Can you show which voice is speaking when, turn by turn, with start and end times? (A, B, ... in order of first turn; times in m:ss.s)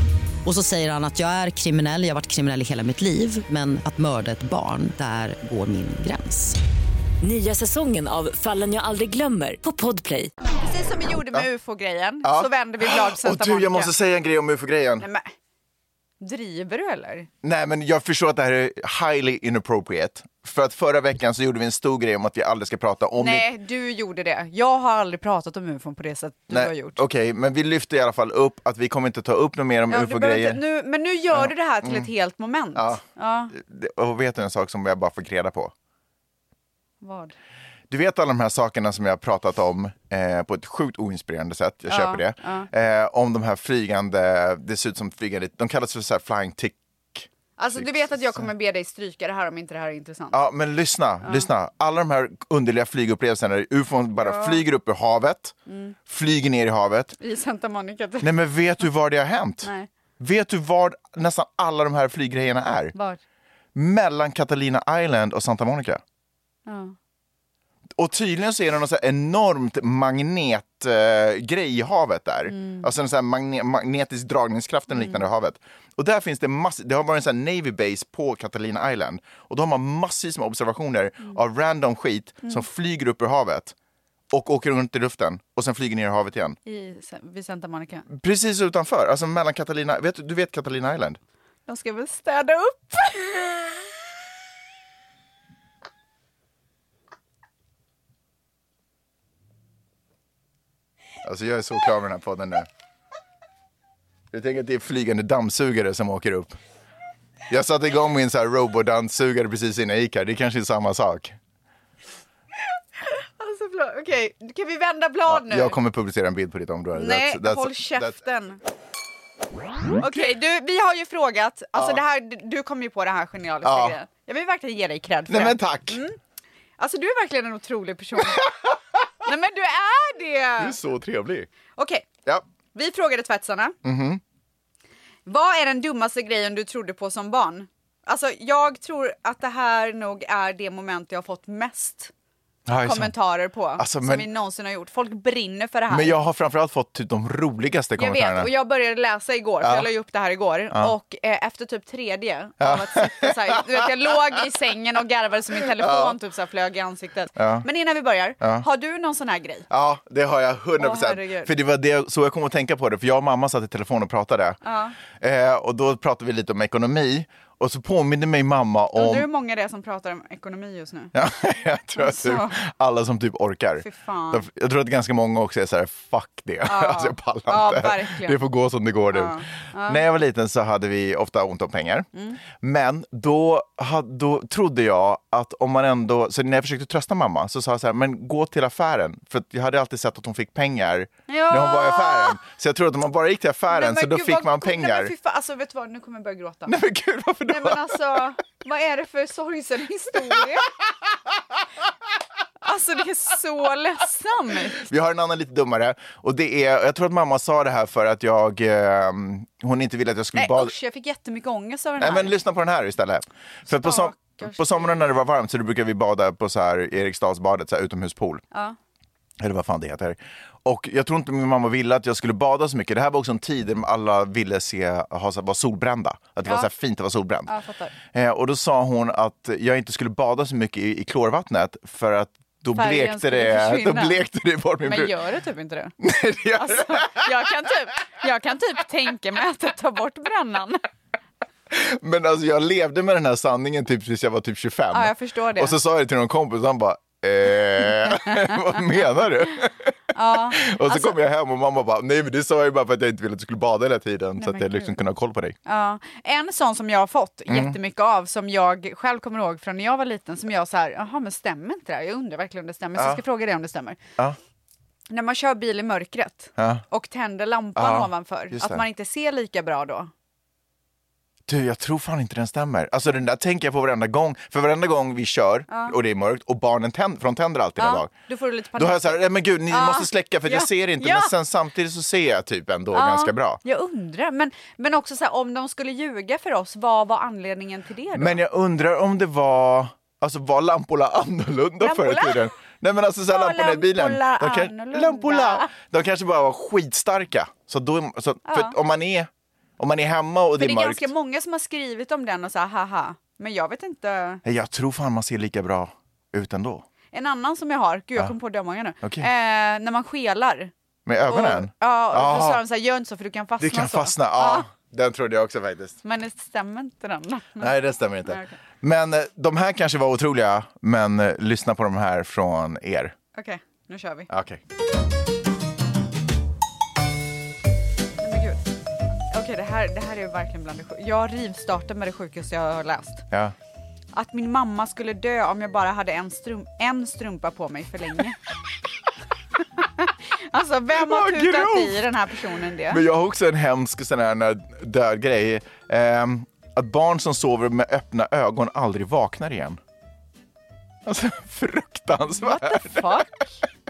0:00.4-0:06.6 A
0:07.2-0:10.3 B
0:10.5-0:13.9 C
0:12.2-0:15.1 D
0:15.0-0:15.3 C
0:16.2-0:17.3 C
0:17.4-0:23.5 D
0:23.2-0:27.0 C
0:26.5-0:30.6 D
0:29.9-0:33.5 C
0:31.3-0:32.1 D
0:32.8-0:35.7 D
0:37.0-0:37.4 C
0:37.9-0:48.4 D
0:41.9-0:42.7 C
0:47.6-0:50.4 C
0:50.3-0:55.6 D
0:54.2-0:54.6 C
0:55.7-0:56.0 C
0:56.1-0:57.2 D
0:57.2-0:58.3 C
0:58.2-1:02.9 D
0:59.6-0:59.9 C
1:03.0-1:03.2 C
1:03.8-1:06.0 D
1:06.7-1:07.0 C
1:08.0-1:23.7 D
1:12.5-1:12.9 C
1:14.9-1:15.2 C
1:24.3-1:26.6 D
1:26.7-1:28.1 C
1:28.1-1:31.2 D
1:31.7-1:33.7 C
1:41.2-1:42.7 D
1:44.3-1:46.6 D
1:47.5-1:51.4 D
1:53.0-1:55.8 C
1:55.3-1:58.2 D
1:56.9-1:58.6 C
2:00.0-2:06.2 C
2:03.6-2:04.0 D
2:05.3-2:06.0 D
2:06.8-2:08.6 C
2:09.2-2:10.8 C
2:10.6-2:11.5 D
2:11.8-2:12.1 C
2:12.7-2:13.8 C
2:13.8-2:14.2 D
2:15.3-2:22.1 C
2:22.7-2:23.2 D
2:22.8-2:26.2 C
2:23.8-2:24.3 D
2:25.9-2:28.5 D
2:28.0-2:39.7 C
2:29.6-2:29.9 D
2:32.6-2:34.1 D
2:35.6-2:36.2 D
2:37.4-2:37.7 D
2:38.4-2:38.7 D
2:39.7-2:44.6 D
2:40.8-2:41.5 C
2:44.6-2:45.0 C
2:45.2-2:49.3 D
2:49.0-2:51.1 C
2:51.1-3:15.1 D
2:52.0-2:52.6 C
2:53.8-2:54.5 C
2:56.7-2:58.4 C
2:59.1-3:00.0 C
3:02.1-3:02.4 C
3:11.3-3:12.4 C
3:13.7-3:16.8 C
3:16.7-3:18.2 D
3:17.5-3:20.7 C
3:22.6-3:24.8 C
3:24.8-3:30.7 D
3:30.4-3:32.4 C
3:32.0-3:38.4 D
3:33.7-3:35.0 C
3:39.4-3:47.5 D
3:47.5-3:47.9 C
3:48.1-3:55.2 D
3:52.8-3:54.2 C
3:54.8-3:56.0 C
3:56.0-3:57.3 D
3:56.6-4:00.8 C
4:01.7-4:15.6 D
4:04.9-4:05.8 C
4:08.3-4:08.5 C
4:10.1-4:11.2 C
4:14.4-4:15.0 C
4:15.7-4:24.0 C
4:17.5-4:17.8 D
4:23.0-4:23.2 D
4:25.1-4:30.1 C
4:26.6-4:26.8 D
4:27.8-4:28.8 D
4:31.5-4:38.1 D
4:35.7-4:36.0 C
4:37.8-4:41.3 C
4:38.8-4:43.6 D
4:42.9-4:48.4 C
4:48.2-5:01.1 D
4:51.8-4:52.5 C
4:53.3-4:55.7 C
4:58.5-4:58.8 C
5:00.6-5:04.4 C
5:04.4-5:06.8 D
5:07.1-5:10.7 C
5:09.0-5:09.3 D
5:11.1-5:12.6 D
5:11.2-5:14.7 C
5:13.6-5:16.0 D
5:16.0-5:17.7 C
5:17.6-5:23.2 D
5:18.2-5:18.6 C
5:23.4-5:24.3 C
5:24.3-5:24.6 D
5:28.2-5:28.6 C
5:29.3-5:33.2 C
5:34.1-5:38.4 C
5:39.8-5:43.0 C
5:40.9-5:42.1 D
5:42.9-5:49.8 D
5:51.0-5:53.3 D
5:52.4-5:53.5 C